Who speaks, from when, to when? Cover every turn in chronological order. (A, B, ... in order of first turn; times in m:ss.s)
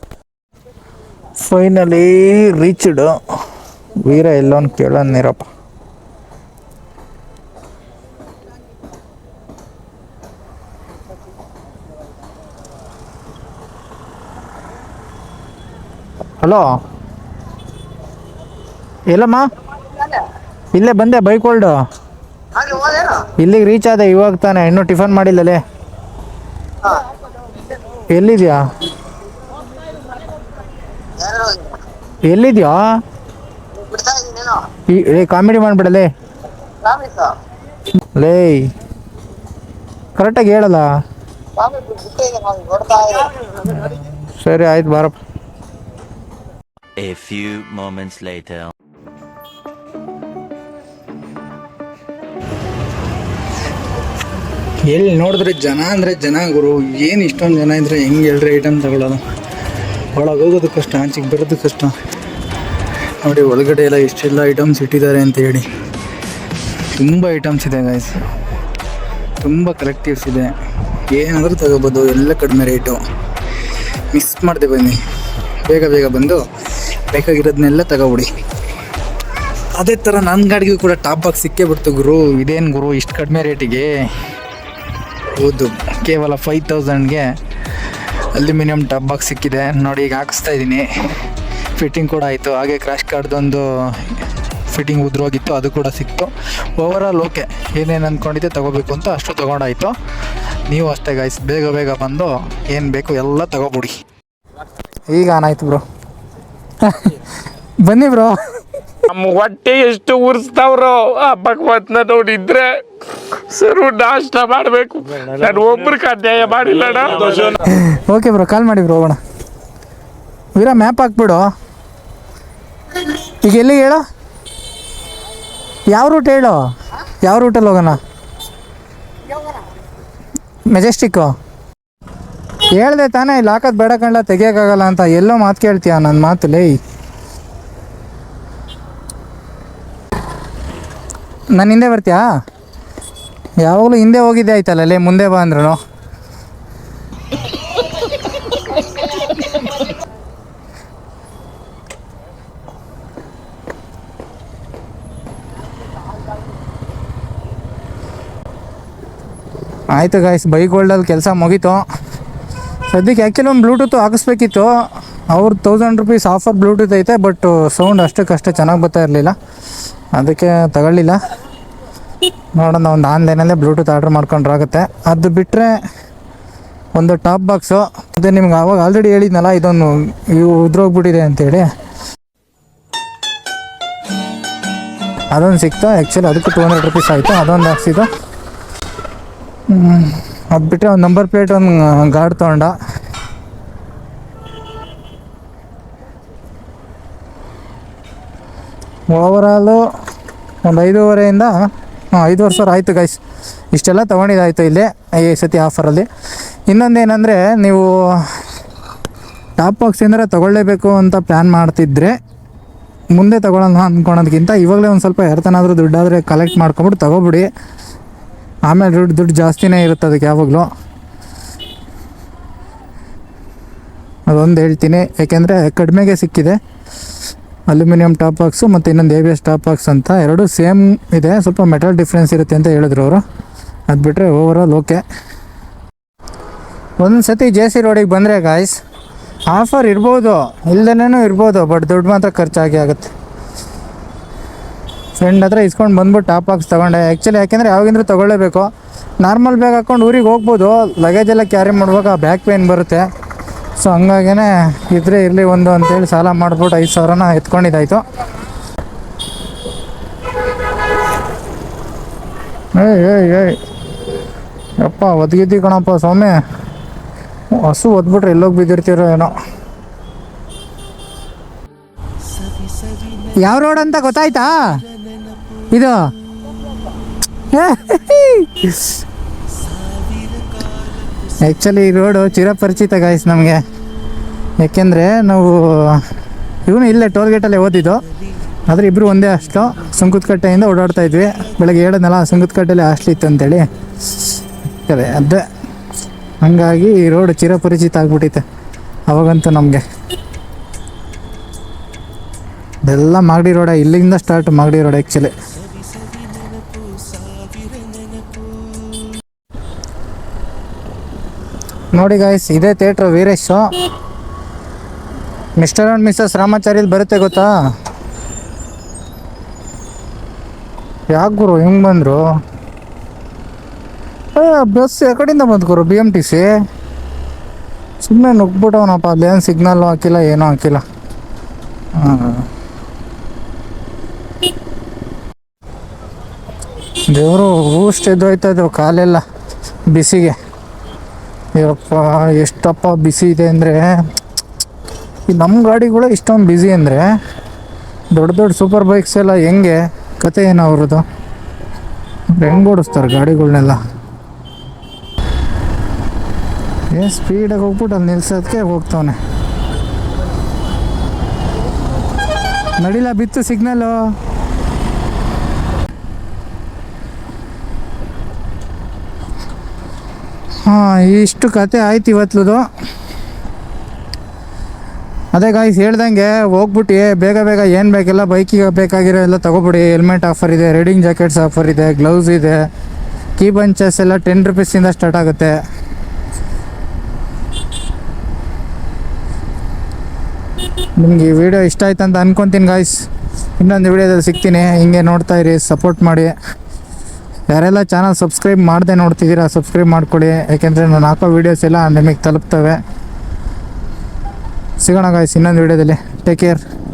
0:01.4-0:03.2 A
0:04.0-0:05.4 A
0:19.1-0:19.5 A
0:20.7-0:21.8 A
0:22.6-0:23.1 B
0:23.2-0:25.6 A
0:28.1-0:28.6 A
0:31.2-0:31.7 B
0:32.2-0:32.8 A
0:33.9-0:34.6 B
0:34.9-0:36.1 A
0:36.8-0:37.4 B
0:38.1-0:38.7 A
0:40.2-0:40.9 A
0:41.6-0:43.4 B
0:43.6-0:45.2 A
0:47.0-0:48.7 B
0:54.9-0:59.2 A
1:00.1-1:01.9 A
1:03.2-1:05.6 A
1:06.9-1:08.1 A
1:09.4-1:13.0 A
1:14.1-1:15.0 A
1:15.6-1:18.3 A
1:19.7-1:24.0 A
1:25.3-1:27.3 A
1:27.9-1:31.0 A
1:31.8-1:39.9 A
1:40.7-1:43.9 A
1:45.1-1:45.8 A
1:46.8-1:47.2 A
1:47.8-1:48.4 A
1:49.1-1:57.6 C
1:57.7-1:59.2 A
2:00.5-2:01.4 A
2:03.0-2:04.0 A
2:05.9-2:06.6 A
2:07.2-2:08.0 A
2:10.7-2:11.3 A
2:12.7-2:16.8 A
2:21.5-2:22.2 A
2:23.6-2:25.8 A
2:39.9-2:41.8 A
2:42.9-2:44.7 A
2:45.3-2:49.3 A
2:50.1-2:51.2 A
2:52.6-2:55.7 A
2:56.9-3:01.6 A
3:05.3-3:08.1 A
3:09.7-3:12.7 A
3:19.1-3:19.8 A
3:20.6-3:21.5 A
3:22.1-3:23.2 A
3:23.7-3:26.1 A
3:26.7-3:28.4 A
3:29.6-3:32.1 A
3:33.1-3:37.5 A
3:38.7-3:40.7 A
3:44.3-3:46.6 A
3:47.7-3:53.2 A
3:53.9-3:55.0 A
3:57.0-3:58.8 A
3:59.5-4:03.1 A
4:05.2-4:08.7 A
4:09.2-4:13.0 A
4:13.8-4:18.0 A
4:22.7-4:23.6 A
4:24.8-4:26.4 A
4:27.5-4:29.3 A
4:33.2-4:34.8 A
4:35.7-4:36.0 A
4:37.5-4:39.0 A
4:41.4-4:43.6 A
4:44.6-4:46.0 A
4:46.6-4:48.0 A
4:48.7-4:53.7 A
4:54.7-4:55.4 A
4:56.4-4:58.4 A
4:59.1-4:59.8 A
5:02.8-5:05.3 A
5:11.9-5:13.7 A
5:15.6-5:17.5 A
5:21.1-5:22.2 A
5:24.3-5:26.5 A
5:28.0-5:30.8 A
5:31.9-5:32.5 A
5:37.1-5:39.2 A
5:39.9-5:40.3 A
5:41.6-5:43.9 A
5:45.3-5:47.1 A
5:48.1-5:51.0 A
5:52.3-5:53.8 A
5:56.9-5:59.2 A
6:02.8-6:03.9 A
6:10.6-6:12.6 A
6:15.3-6:22.6 A
6:23.4-6:25.6 A
6:31.0-6:33.0 A
6:33.6-6:36.3 A
6:37.5-6:42.8 A
6:44.8-6:46.6 A